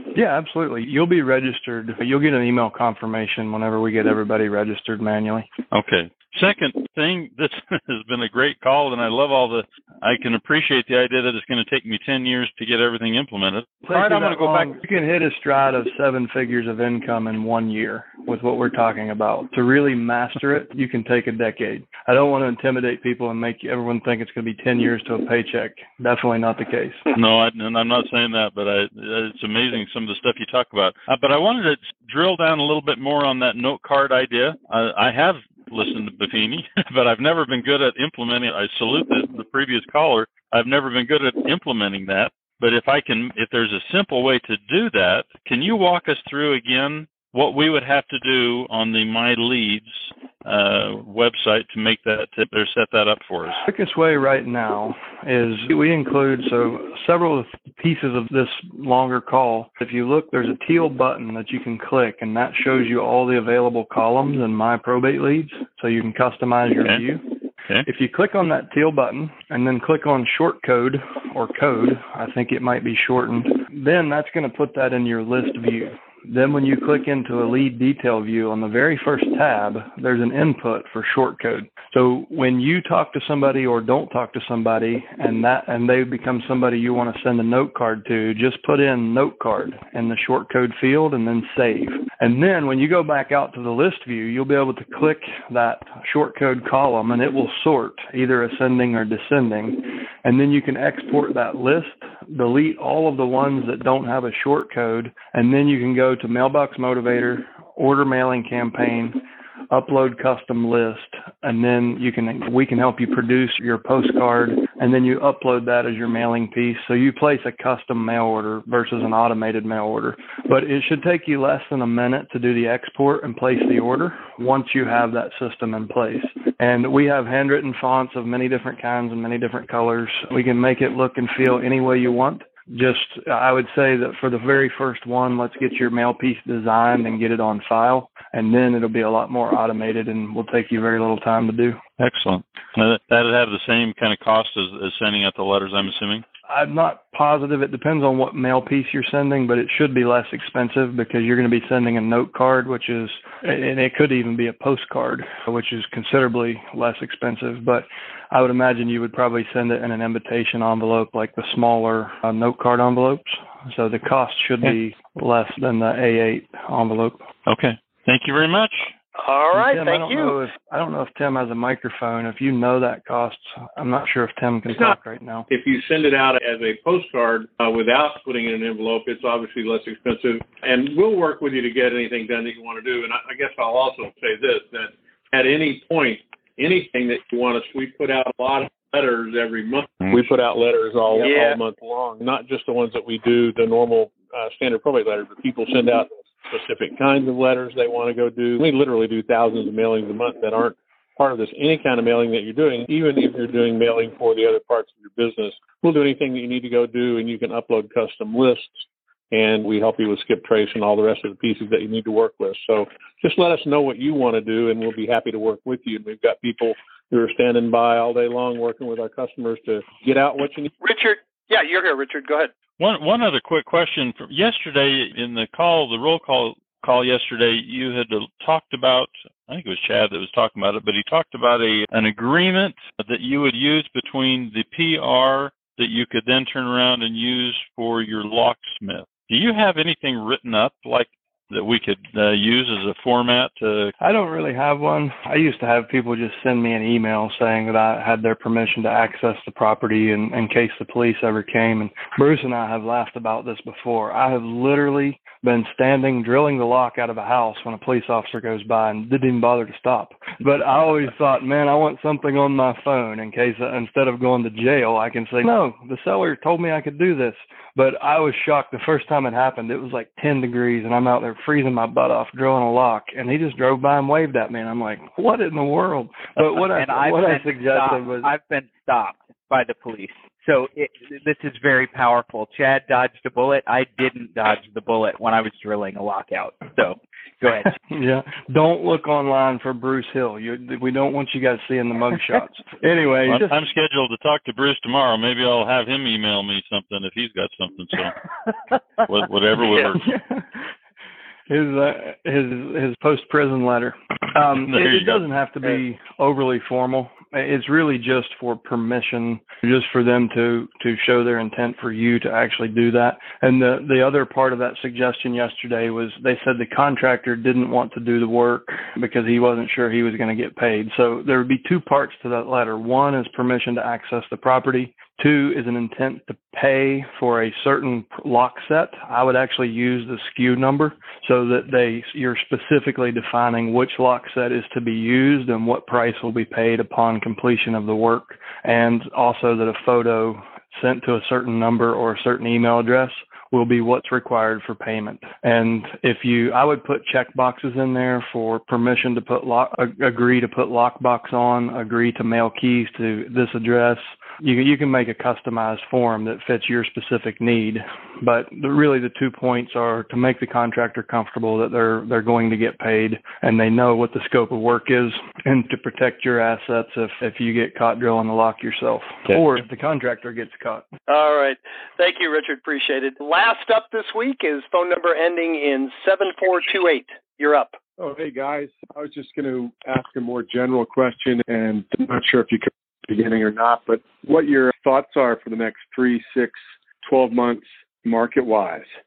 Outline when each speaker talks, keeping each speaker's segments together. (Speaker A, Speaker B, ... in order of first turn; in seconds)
Speaker A: 0.1-5.5, 13.8-27.0, 53.6-67.2, 67.8-141.8, 146.5-167.2, 169.5-175.5, 244.0-278.3, 287.9-293.6, 299.7-300.5, 301.5-370.9
Speaker B: 5.7-14.8, 27.1-53.6, 142.0-146.2, 167.5-168.9, 222.8-243.9, 293.2-298.1, 299.0-300.0, 304.7-305.2
Speaker C: 169.2-170.3, 191.2-191.6, 220.8-222.5, 371.1-377.8
Speaker D: 175.5-220.7
Speaker E: 276.4-287.7
Speaker F: 378.0-388.9